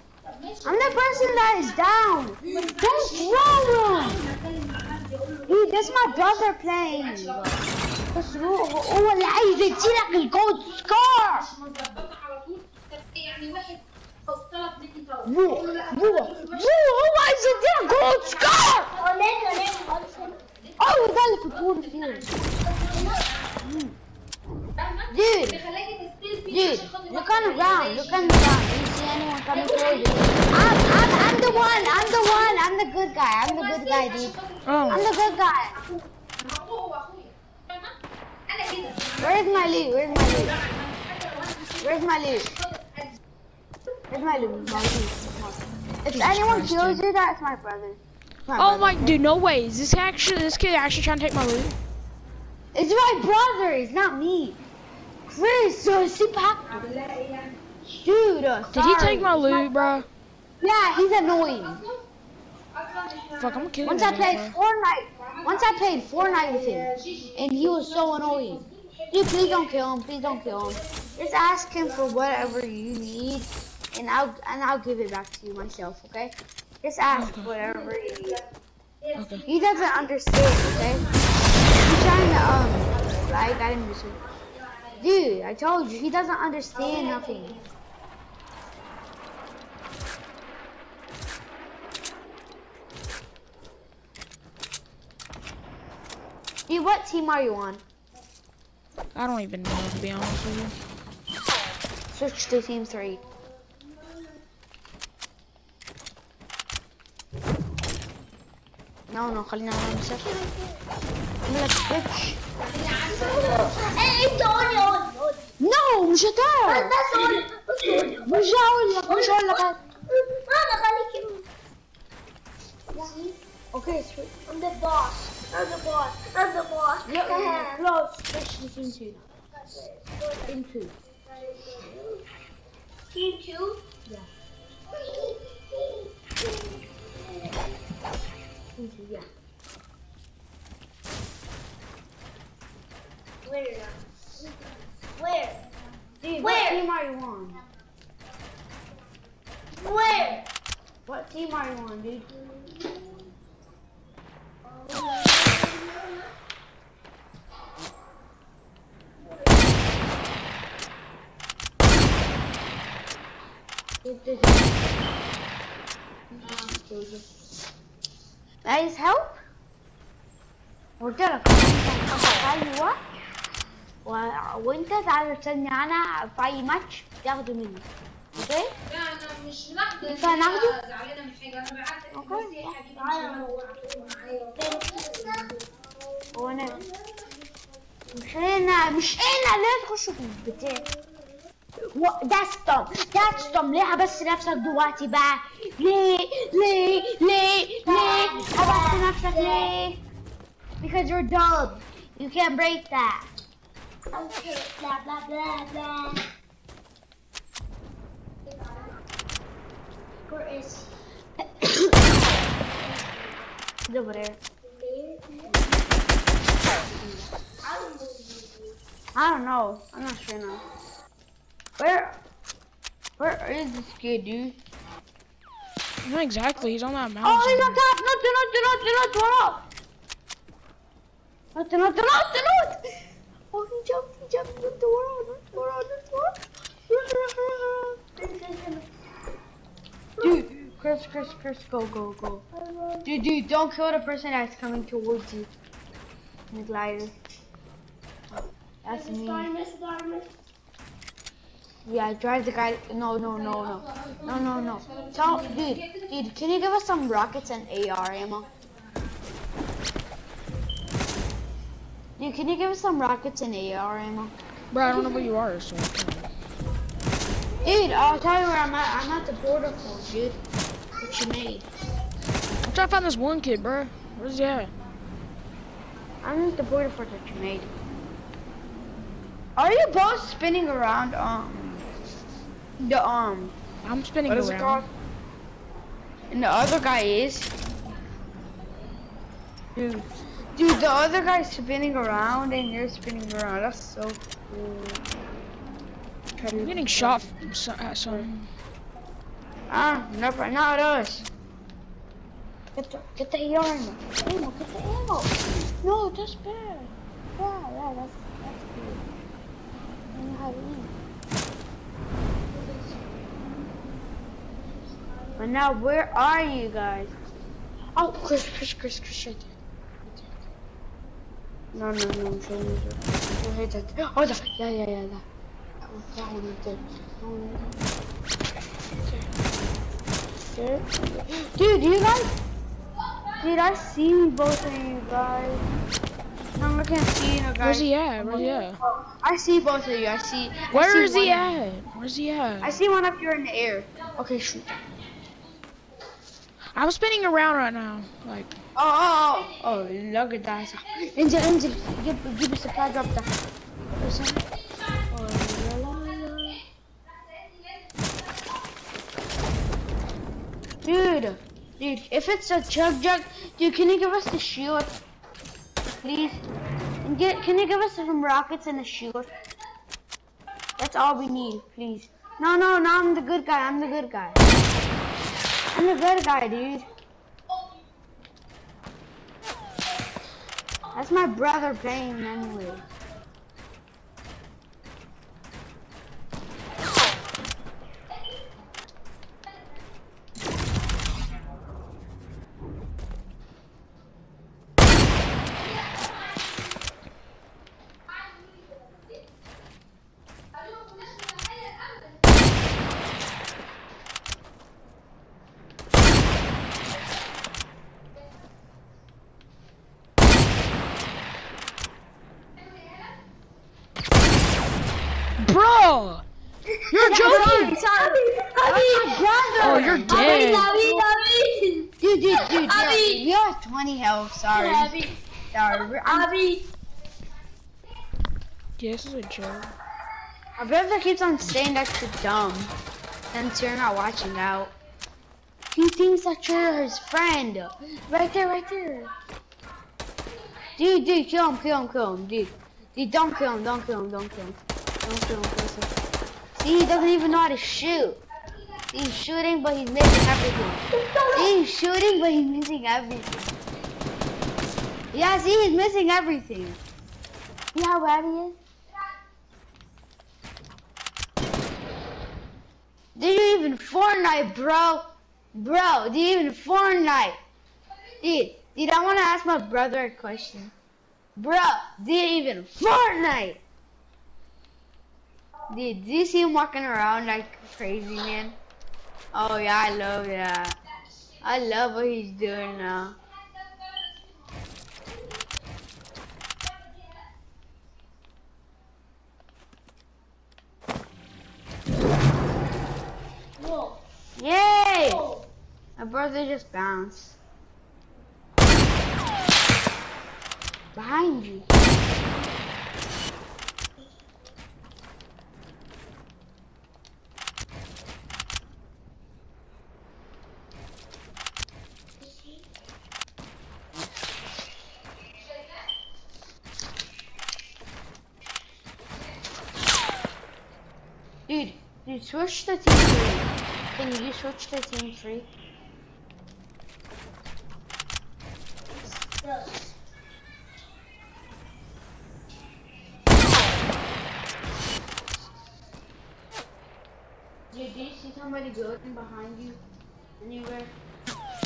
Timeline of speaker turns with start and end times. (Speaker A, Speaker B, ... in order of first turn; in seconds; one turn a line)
Speaker A: 0.2-1.8
Speaker B: 0.6-4.2
Speaker A: 2.4-23.5
Speaker B: 5.5-7.5
Speaker B: 8.1-11.5
Speaker B: 15.2-18.9
Speaker C: 18.9-20.4
Speaker B: 20.8-22.2
Speaker C: 22.9-23.2
Speaker B: 23.6-24.0
Speaker A: 24.8-28.6
Speaker B: 25.1-25.6
Speaker B: 26.5-34.3
Speaker C: 29.5-30.4
Speaker A: 29.6-32.6
Speaker A: 33.4-38.0
Speaker D: 34.6-35.0
Speaker B: 34.9-35.8
Speaker A: 38.5-43.2
Speaker B: 39.2-40.6
Speaker B: 41.8-42.5
Speaker B: 44.1-49.2
Speaker A: 44.3-44.9
Speaker D: 46.1-47.0
Speaker D: 48.5-51.7
Speaker B: 52.7-54.6
Speaker B: 55.2-56.8
Speaker A: 56.6-57.6
Speaker B: 57.9-59.7
Speaker D: 58.7-60.1
Speaker B: 60.6-61.8
Speaker A: 60.9-62.0
Speaker A: 62.7-64.1
Speaker D: 63.4-64.5
Speaker B: 63.8-78.4
Speaker A: 65.2-72.6
Speaker D: 77.1-77.5
Speaker A: 77.6-78.5
Speaker A: 79.0-83.6
Speaker D: 79.2-79.4
Speaker B: 79.4-81.1
Speaker B: 81.8-84.2
Speaker A: 84.2-85.1
Speaker B: 85.0-87.6
Speaker A: 86.7-87.7
Speaker B: 96.7-97.8
Speaker D: 99.1-100.7
Speaker B: 102.1-103.2
Speaker B: 109.1-110.3
Speaker C: 110.1-110.8
Speaker B: 111.5-112.4
Speaker A: 112.6-115.0
Speaker C: 113.1-115.5
Speaker B: 115.6-117.0
Speaker C: 116.7-118.5
Speaker B: 118.1-119.8
Speaker C: 119.0-121.5
Speaker C: 122.9-123.3
Speaker B: 123.7-124.4
Speaker C: 124.4-127.8
Speaker B: 127.0-129.3
Speaker C: 129.5-132.2
Speaker B: 130.4-130.9
Speaker C: 133.1-133.8
Speaker C: 134.9-137.6
Speaker B: 138.8-139.3
Speaker C: 143.4-144.0
Speaker C: 145.1-145.7
Speaker B: 146.2-147.6
Speaker C: 146.4-146.8
Speaker C: 149.7-150.5
Speaker B: 151.1-152.3
Speaker C: 152.5-153.3
Speaker C: 154.6-156.3
Speaker B: 164.0-164.9
Speaker B: 166.3-167.3
Speaker A: 166.4-166.8
Speaker B: 168.6-169.4
Speaker B: 171.0-173.0
Speaker B: 174.0-178.7
Speaker A: 178.8-185.5
Speaker B: 180.0-180.8
Speaker B: 182.1-182.7
Speaker C: 182.9-187.6
Speaker B: 186.3-186.8
Speaker B: 188.1-190.9
Speaker C: 190.6-191.3
Speaker B: 191.8-200.0
Speaker C: 193.3-193.8
Speaker C: 197.8-199.7
Speaker B: 200.8-203.3
Speaker C: 204.1-206.2
Speaker C: 210.3-210.9
Speaker C: 212.8-213.4
Speaker B: 213.9-214.4
Speaker C: 214.6-215.6
Speaker B: 216.9-217.3
Speaker C: 217.6-218.8
Speaker B: 219.1-220.6
Speaker B: 221.8-222.2
Speaker B: 223.2-224.6
Speaker D: 226.0-227.8
Speaker B: 227.2-229.6
Speaker B: 231.5-232.8
Speaker B: 233.5-238.2
Speaker C: 238.2-238.8
Speaker B: 240.2-242.4
Speaker C: 242.5-243.1
Speaker B: 243.0-245.5
Speaker B: 246.5-247.1
Speaker B: 248.3-249.5
Speaker C: 248.8-250.3
Speaker B: 251.8-258.5
Speaker A: 253.3-256.6
Speaker A: 258.4-259.1
Speaker B: 262.2-264.4
Speaker D: 264.7-266.3
Speaker B: 267.6-270.4
Speaker B: 271.0-271.7
Speaker D: 272.6-274.7
Speaker B: 276.2-277.7
Speaker B: 279.6-281.9
Speaker B: 282.8-283.6
Speaker D: 283.8-284.8
Speaker B: 284.3-284.9
Speaker B: 286.3-287.5
Speaker B: 289.7-295.1
Speaker B: 296.4-297.3
Speaker D: 296.5-298.5
Speaker B: 299.7-301.2
Speaker B: 302.7-309.0
Speaker B: 310.1-310.9
Speaker C: 312.5-312.9
Speaker C: 314.8-315.4
Speaker B: 315.4-317.1
Speaker B: 317.9-320.4
Speaker B: 321.7-325.2
Speaker B: 325.8-327.8
Speaker D: 329.0-329.3
Speaker B: 330.4-332.3
Speaker A: 333.0-333.9
Speaker B: 333.4-335.6
Speaker B: 336.5-341.5
Speaker D: 337.6-338.8
Speaker D: 340.7-342.8
Speaker B: 342.6-344.7
Speaker D: 346.7-348.5
Speaker B: 348.7-353.3
Speaker A: 350.9-352.0
Speaker B: 353.8-354.4
Speaker A: 354.4-356.6
Speaker B: 355.1-356.6
Speaker A: 357.1-358.6
Speaker B: 360.8-364.9
Speaker B: 366.0-366.4
Speaker B: 367.0-369.3
Speaker B: 370.8-374.4
Speaker B: 375.7-376.9
Speaker B: 380.9-382.8
Speaker A: 395.5-396.7
Speaker A: 400.5-402.3
Speaker D: 415.4-416.2
Speaker C: 416.8-423.2
Speaker B: 416.9-421.1
Speaker D: 416.9-417.8
Speaker D: 419.6-420.7
Speaker B: 422.0-424.9
Speaker C: 424.5-425.2
Speaker B: 425.5-426.3
Speaker C: 425.7-426.7
Speaker D: 428.8-429.7
Speaker B: 430.6-432.7
Speaker B: 433.3-434.7
Speaker B: 435.7-439.1
Speaker A: 440.3-440.8
Speaker B: 440.8-445.9
Speaker B: 446.6-448.2
Speaker B: 448.9-453.5
Speaker C: 450.9-451.5
Speaker B: 455.1-456.8
Speaker B: 457.7-458.6
Speaker B: 463.1-467.4
Speaker B: 468.2-470.7
Speaker B: 471.4-473.6
Speaker B: 475.7-478.6
Speaker B: 479.3-480.8
Speaker B: 481.4-483.2
Speaker C: 493.6-494.0
Speaker B: 494.4-495.3
Speaker C: 494.9-495.5
Speaker B: 496.0-497.4
Speaker B: 500.9-501.6
Speaker C: 512.2-512.5
Speaker A: 515.4-515.8
Speaker B: 521.5-525.5
Speaker C: 529.0-529.8
Speaker B: 537.7-539.8
Speaker B: 540.4-540.9